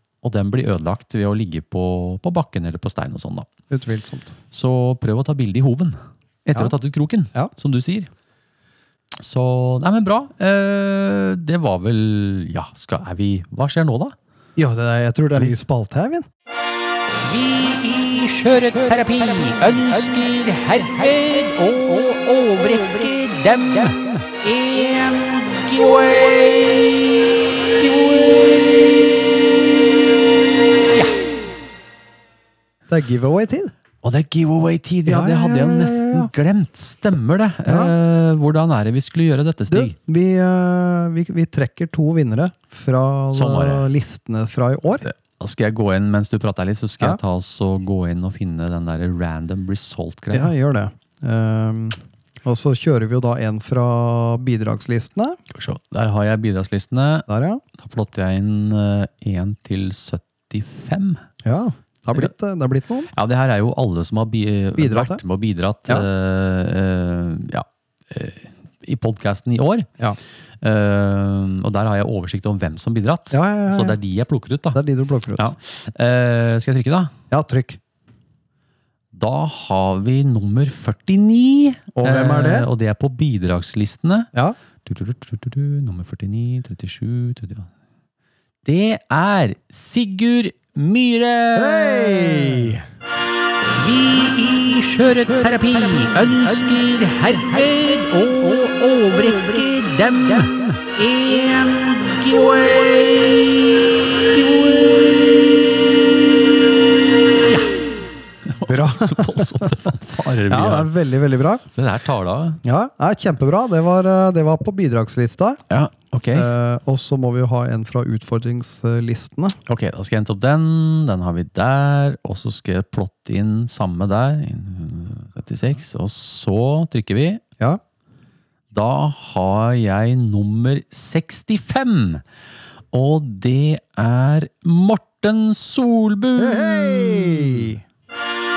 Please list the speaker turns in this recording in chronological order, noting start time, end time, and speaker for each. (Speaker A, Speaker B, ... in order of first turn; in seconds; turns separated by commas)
Speaker A: 0.2-3.5, Speaker B: 3.7-4.3, Speaker A: 4.5-8.1, Speaker A: 9.2-14.1, Speaker B: 14.6-16.2, Speaker C: 17.2-29.2, Speaker B: 32.9-33.7, Speaker A: 34.0-39.9, Speaker B: 35.0-36.3, Speaker B: 37.6-37.9, Speaker B: 39.7-45.0, Speaker A: 43.3-43.9, Speaker A: 45.0-50.5, Speaker B: 50.3-55.4, Speaker A: 55.5-57.3, Speaker B: 57.3-57.6, Speaker A: 57.8-61.2, Speaker B: 61.4-63.1, Speaker A: 63.1-69.9, Speaker B: 64.8-65.2, Speaker A: 70.6-74.8, Speaker B: 73.3-74.0, Speaker B: 74.7-75.5, Speaker A: 75.3-77.1, Speaker B: 77.3-77.8, Speaker A: 79.1-84.3, Speaker B: 82.0-82.7, Speaker A: 84.8-87.7, Speaker A: 88.6-92.8, Speaker B: 91.5-92.8, Speaker C: 93.7-105.6, Speaker A: 108.5-110.9, Speaker B: 108.6-109.7, Speaker B: 110.5-111.6, Speaker A: 111.7-112.6, Speaker B: 112.6-115.6, Speaker A: 115.7-116.5, Speaker B: 116.3-119.6, Speaker A: 119.7-127.4, Speaker A: 128.7-132.2, Speaker A: 132.9-137.7, Speaker B: 136.4-137.8